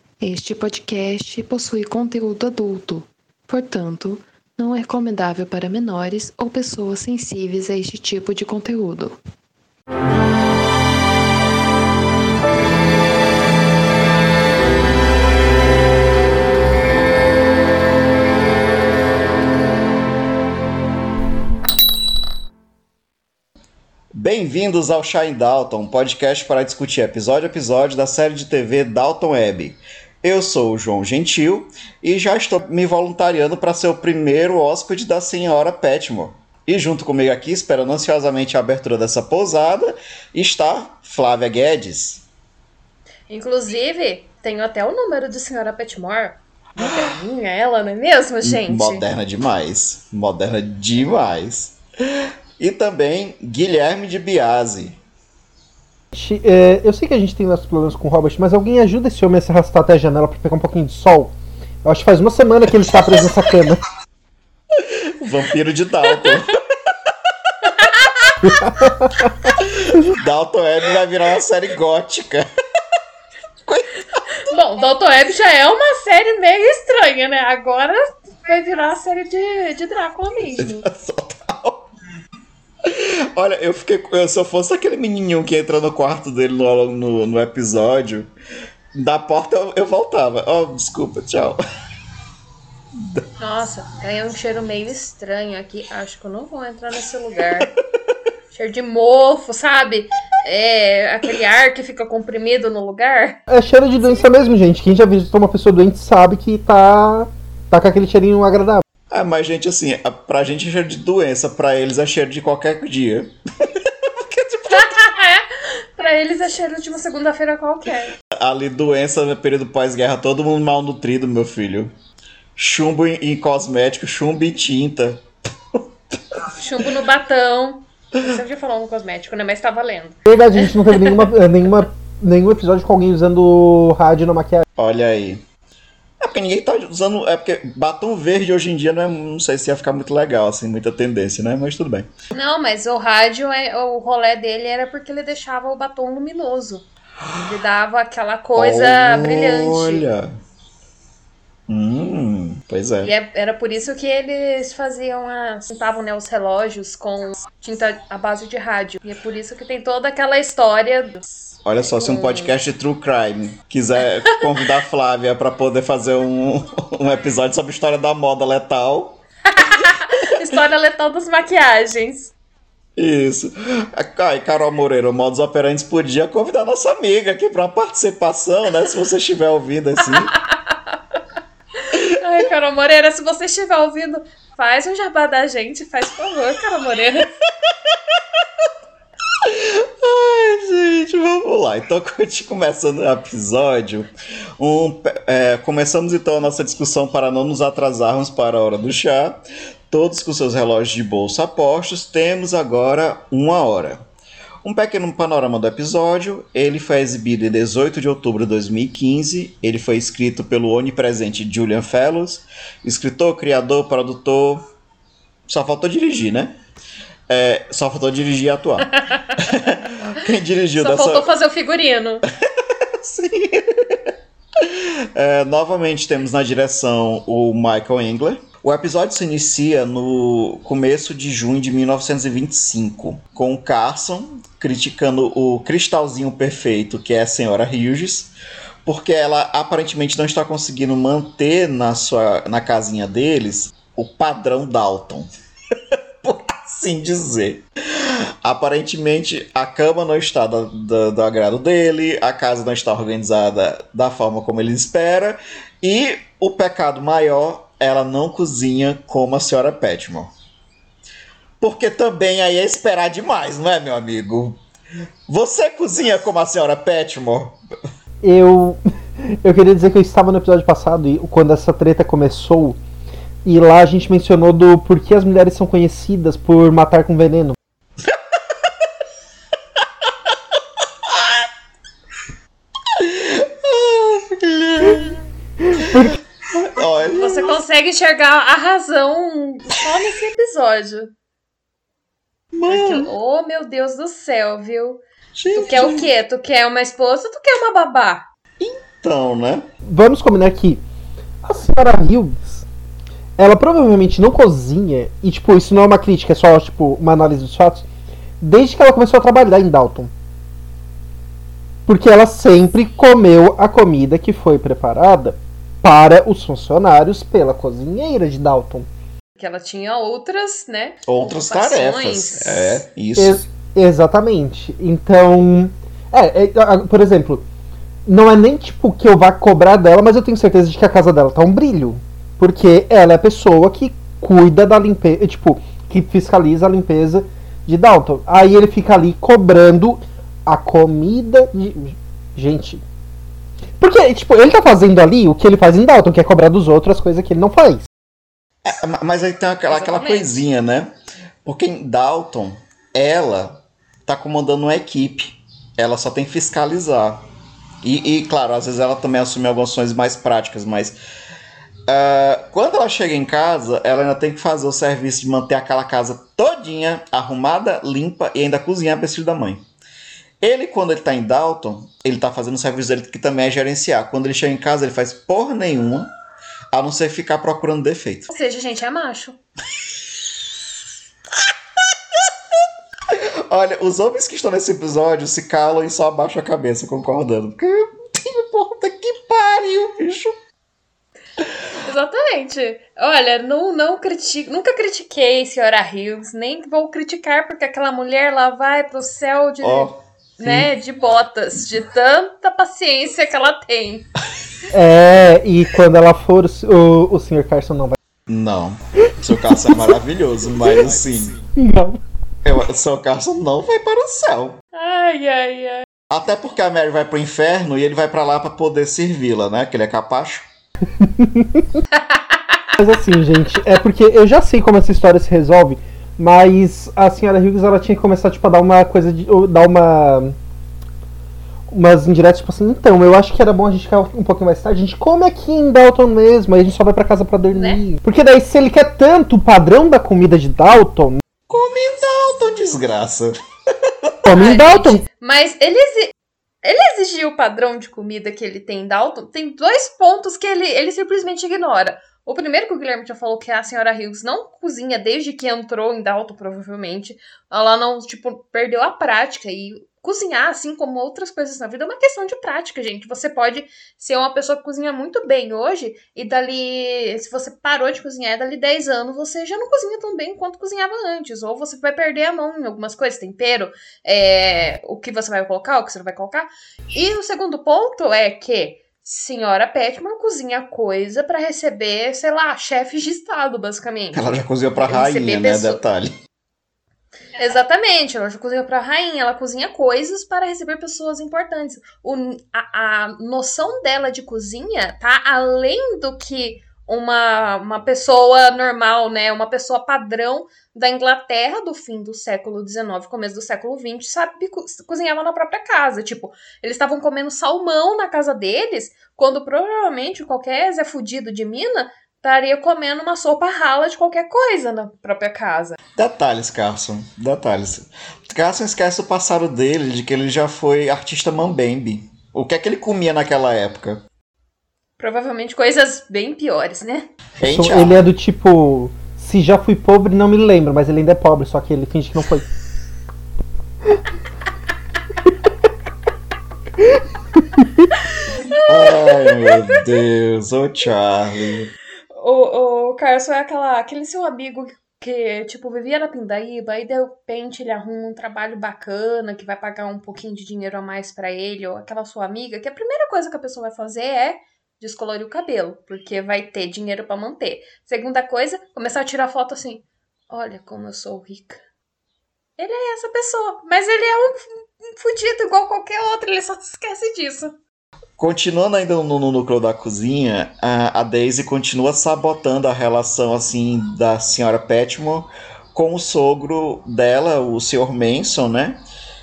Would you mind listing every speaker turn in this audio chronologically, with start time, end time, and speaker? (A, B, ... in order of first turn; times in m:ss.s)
0:00.2-0:09.2 A
0:24.1-0:42.2 B
0:43.3-0:49.0 C
0:48.4-0:55.0 B
0:56.1-1:03.8 D
1:04.8-1:06.6 B
1:07.7-1:08.6 C
1:08.4-1:09.3 D
1:09.4-1:12.4 B
1:13.6-1:14.6 B
1:14.4-1:20.9 C
1:20.6-1:21.9 B
1:22.8-1:28.3 B
1:29.0-1:31.6 B
1:33.4-1:37.7 C
1:38.5-1:43.4 C
1:43.5-1:48.8 D
1:49.1-1:55.0 B
1:54.7-1:58.1 C
1:58.3-2:01.9 B
2:02.6-2:05.2 B
2:06.5-2:11.2 C
2:10.2-2:14.6 D
2:14.8-2:15.4 B
2:16.2-2:22.1 B
2:22.3-2:26.9 C
2:27.4-2:30.0 C
2:28.6-2:30.3 B
2:31.7-2:33.1 B
2:33.0-2:41.2 C
2:41.6-2:49.9 B
2:41.8-2:42.5 C
2:49.5-2:52.3 C
2:53.0-3:00.4 B
3:00.1-3:00.7 C
3:01.8-3:07.3 C
3:09.4-3:24.0 B
3:24.6-3:34.6 B
3:35.5-3:36.5 B
3:37.3-3:41.3 B
3:39.0-3:39.5 C
3:40.8-3:42.2 C
3:43.0-3:58.3 B
3:58.8-4:05.3 B
4:06.2-4:20.3 B
4:21.6-4:24.6 B
4:25.3-4:27.6 B
4:28.2-4:32.8 D
4:33.4-4:37.6 D
4:41.1-4:41.4 B
4:42.9-4:45.2 B
4:45.7-4:46.1 D
4:45.9-4:47.6 B
4:47.0-4:51.1 C
4:52.5-4:53.1 B
4:52.7-4:55.0 C
4:55.4-4:56.1 B
4:55.6-4:58.2 C
4:58.6-4:59.6 B
4:59.9-5:00.8 D
5:01.4-5:02.7 D
5:03.4-5:07.9 D
5:08.4-5:10.1 D
5:11.9-5:18.9 D
5:19.4-5:22.8 C
5:21.1-5:23.5 B
5:23.2-5:27.4 D
5:28.1-5:42.8 D
5:43.8-5:47.9 D
5:48.6-5:50.9 B
5:49.7-5:50.4 C
5:51.4-5:57.2 B
5:57.8-6:01.0 B
6:01.9-6:09.6 B
6:10.4-6:16.1 B
6:16.7-6:18.3 B
6:18.3-6:19.4 C
6:23.1-6:30.3 B
6:31.8-6:44.1 C
6:39.6-6:40.7 B
6:44.7-6:48.0 D
6:48.3-6:51.4 B
6:49.3-6:49.9 D
6:51.5-6:52.0 D
6:52.4-6:54.6 B
6:54.7-6:55.8 C
6:56.1-7:00.5 B
7:01.0-7:01.8 D
7:01.9-7:02.6 C
7:02.8-7:10.4 D
7:11.7-7:21.2 D
7:17.5-7:17.8 C
7:21.5-7:24.2 B
7:24.2-7:25.0 D
7:24.3-8:05.8 C
8:04.1-8:06.1 B
8:07.4-8:35.8 C
8:36.0-8:44.0 B
8:45.0-8:47.1 C
8:47.4-8:48.1 B
8:47.4-8:52.4 D
8:58.3-8:59.7 C
8:58.6-9:01.7 B
9:02.1-9:21.6 C
9:22.6-9:27.5 C
9:28.2-9:38.8 B